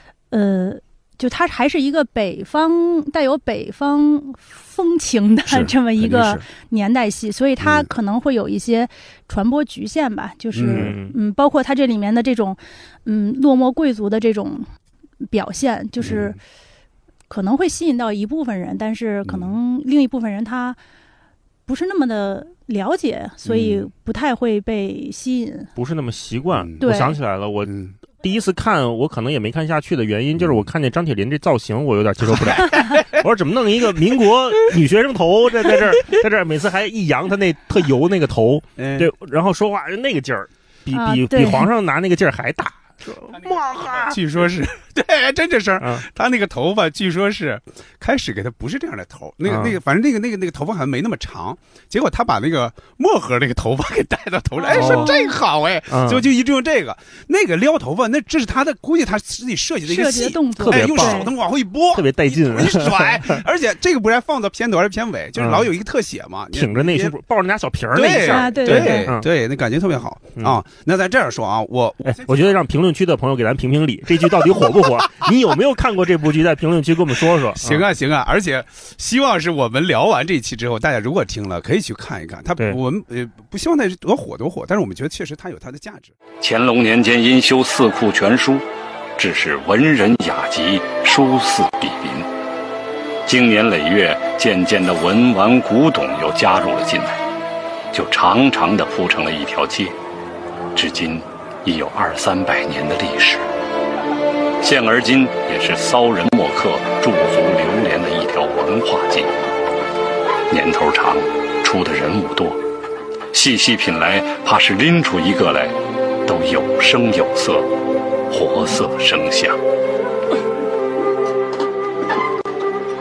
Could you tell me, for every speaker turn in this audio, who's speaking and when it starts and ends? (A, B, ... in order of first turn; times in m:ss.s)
0:00.3-0:14.7 A
0:06.0-0:06.4 B
0:07.6-0:07.9 B
0:10.5-0:10.9 B
0:10.7-0:11.2 C
0:15.3-0:16.4 A
0:16.0-0:16.4 B
0:17.3-0:20.8 A
0:19.2-0:19.5 B
0:21.7-0:25.7 A
0:23.4-0:23.9 B
0:25.8-0:44.3 C
0:26.5-0:26.8 B
0:26.8-0:27.2 A
0:27.6-0:27.9 B
0:30.4-0:30.7 B
0:32.2-0:33.2 B
0:38.8-0:39.1 B
0:40.9-0:41.7 A
0:43.3-1:07.2 B
0:45.8-0:46.0 C
0:49.4-0:49.8 C
0:54.6-0:55.3 A
0:54.7-0:55.1 C
0:55.9-0:56.2 C
0:59.8-1:01.3 A
1:00.6-1:01.3 C
1:01.9-1:03.4 C
1:05.4-1:05.7 C
1:06.5-1:09.3 C
1:07.9-1:12.6 B
1:08.2-1:09.1 A
1:12.0-1:17.8 C
1:14.3-1:14.7 B
1:17.6-1:26.2 B
1:26.4-1:28.6 D
1:29.2-1:32.3 D
1:33.2-1:37.2 D
1:37.9-1:40.0 D
1:40.7-1:43.5 D
1:44.6-1:49.3 D
1:50.5-1:52.6 D
1:53.3-1:57.7 D
1:58.3-1:59.6 D